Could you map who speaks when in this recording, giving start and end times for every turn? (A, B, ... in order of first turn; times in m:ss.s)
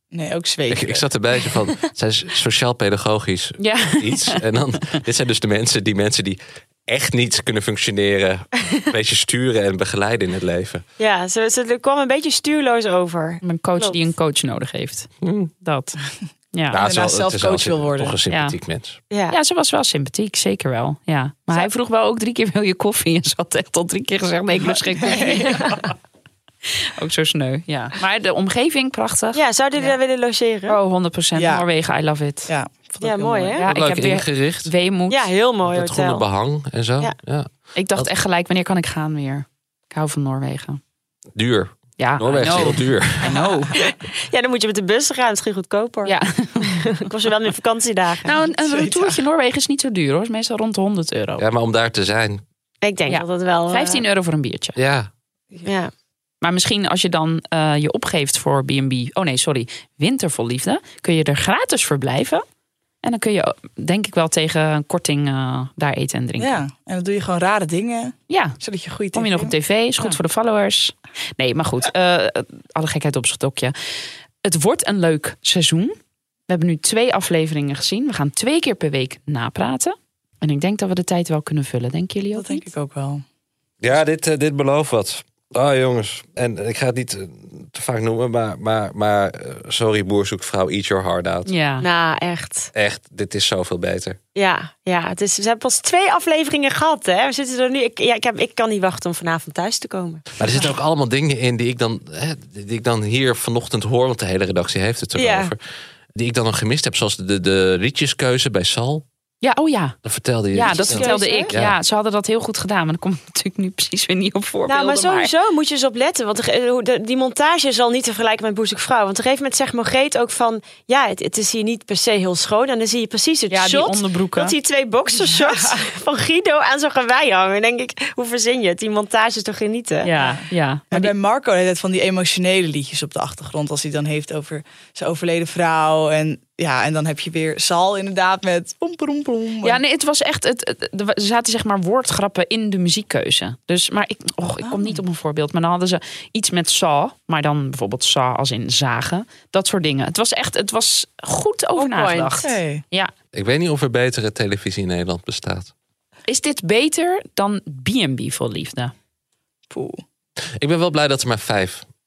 0:00.1-0:01.0 A
0:00.7-0:10.8 B
0:03.6-0:04.4 C
0:11.0-0:14.0 D
0:13.4-0:16.0 C
0:15.2-0:15.5 B
0:16.5-0:16.8 C
0:16.7-0:19.0 B
0:16.7-0:18.2 A
0:18.3-0:18.6 C
0:19.1-0:19.4 D
0:19.3-0:25.7 C
0:25.0-0:25.7 A
0:25.5-0:25.8 D
0:27.0-0:30.0 C
0:29.3-0:30.8 D
0:30.7-0:32.5 C
0:31.4-0:31.6 A
0:32.5-0:33.6 A
0:33.0-0:33.6 D
0:33.6-0:35.3 C
0:33.7-0:34.7 B
0:35.1-0:36.2 D
0:35.7-0:38.1 B
0:37.8-0:40.8 C
0:41.4-0:43.3 B
0:42.0-0:43.7 C
0:43.8-0:48.3 D
0:46.0-0:46.8 C
0:48.2-0:51.4 C
0:48.5-0:49.2 A
0:51.4-0:52.4 B
0:52.8-0:54.0 D
0:53.1-0:54.8 C
0:54.8-0:55.1 B
0:55.6-0:55.9 D
0:56.4-1:02.4 C
1:03.0-1:06.6 C
1:06.4-1:10.2 A
1:08.3-1:08.6 C
1:09.1-1:13.7 C
1:14.4-1:16.0 C
1:16.5-1:22.7 C
1:22.4-1:23.2 A
1:23.8-1:31.5 B
1:31.4-1:31.9 C
1:31.8-1:32.7 D
1:32.7-1:34.2 B
1:34.4-1:40.2 D
1:40.4-1:45.6 B
1:45.2-1:45.5 D
1:46.2-1:49.0 B
1:49.4-1:50.0 C
1:50.0-1:51.8 B
1:50.5-1:55.3 C
1:50.7-1:51.6 D
1:54.7-2:10.1 D
2:03.5-2:04.5 C
2:05.3-2:05.7 A
2:10.0-2:11.1 C
2:10.2-2:19.8 A
2:19.6-2:33.1 C
2:24.6-2:25.0 A
2:31.8-2:32.5 D
2:32.4-2:32.8 A
2:33.3-2:35.7 B
2:36.3-2:38.9 C
2:39.7-2:40.0 A
2:40.6-2:41.9 B